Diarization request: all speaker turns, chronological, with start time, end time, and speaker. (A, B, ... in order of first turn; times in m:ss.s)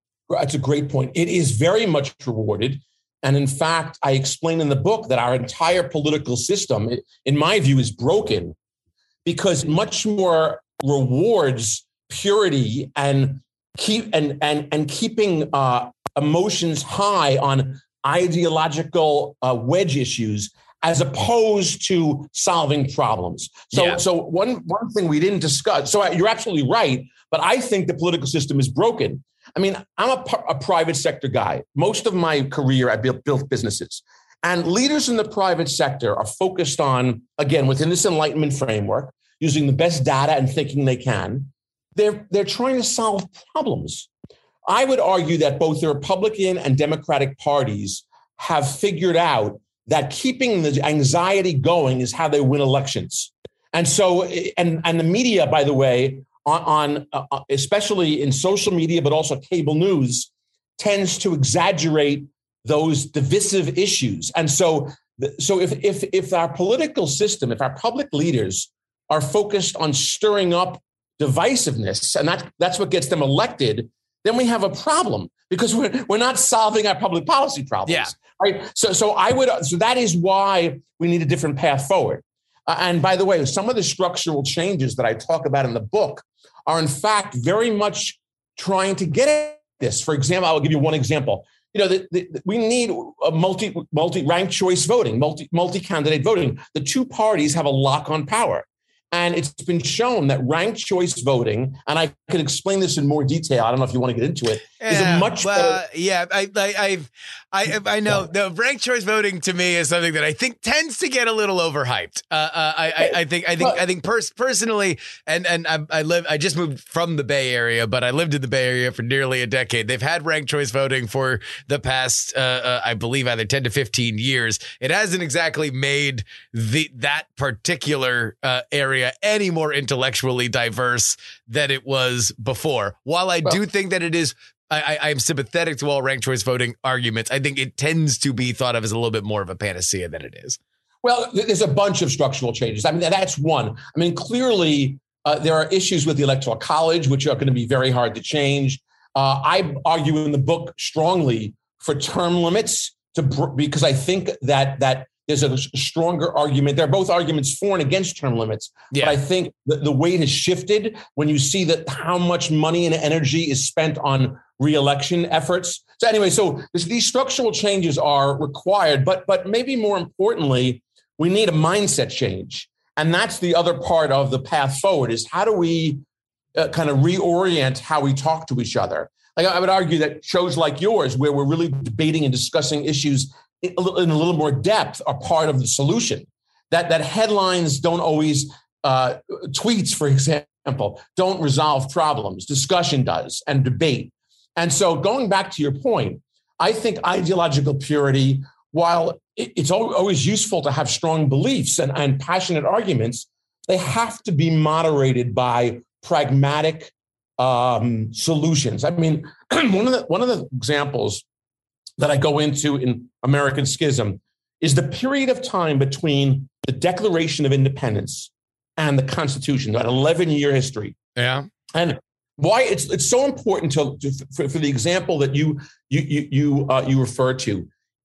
0:00.3-0:08.5 A
0:09.2-0:44.1 A
0:23.7-0:24.0 B
0:44.6-1:45.8 A
1:17.8-1:18.1 B
1:44.8-2:20.6 B
1:53.0-1:53.8 A
2:21.0-2:56.0 A
2:38.9-2:39.2 B
2:56.5-3:31.2 A
3:32.0-3:41.0 A
3:41.2-3:41.5 B
3:41.7-3:47.7 A